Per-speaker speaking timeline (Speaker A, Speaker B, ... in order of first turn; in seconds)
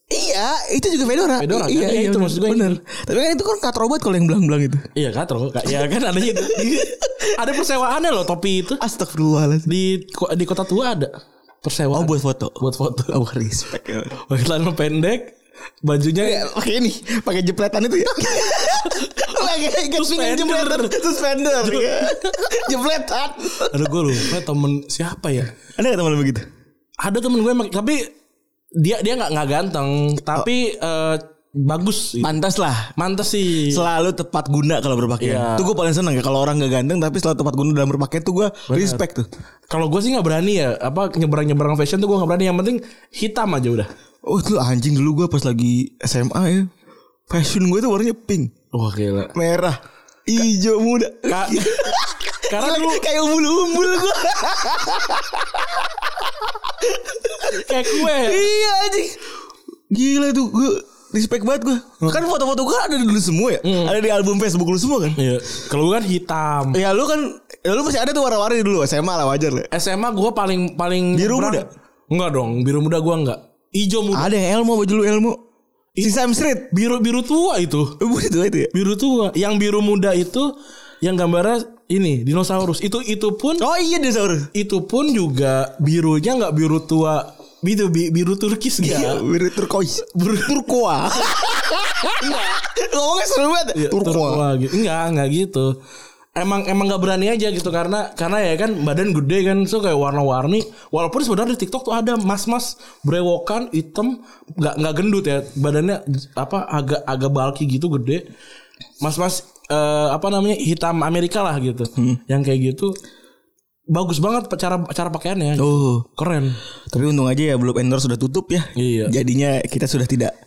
Speaker A: 0.1-4.9, 6.3-7.3, 8.8-9.7, 11.9-14.2, 16.2-24.3, 25.8-26.4, 32.2-32.9, 33.6-39.3, 44.2-46.7, 47.3-48.5, 49.3-59.2, 59.9-65.2, 66.7-69.7, 71.1-71.7, 74.1-75.4, 76.0-76.7, 78.0-78.7, 83.6-84.5, 88.8-94.5, 115.6-116.0, 116.9-120.3
Speaker B: 1.4-2.8, 4.9-8.8, 9.7-13.1, 14.2-16.4, 18.8-19.2, 19.9-21.0, 21.6-22.5, 23.7-25.5, 27.0-28.1, 28.8-32.3, 33.0-33.8, 35.2-35.7, 38.7-39.0, 39.7-43.9, 48.7-49.3, 51.3-51.9, 52.5-53.0, 57.5-58.5, 63.6-64.0, 65.1-66.8, 69.7-74.3, 76.7-78.0, 78.7-83.6, 84.5-89.2, 90.1-90.7, 93.7-95.8, 96.4-108.2, 109.0-113.0, 113.9-116.6, 118.8-119.2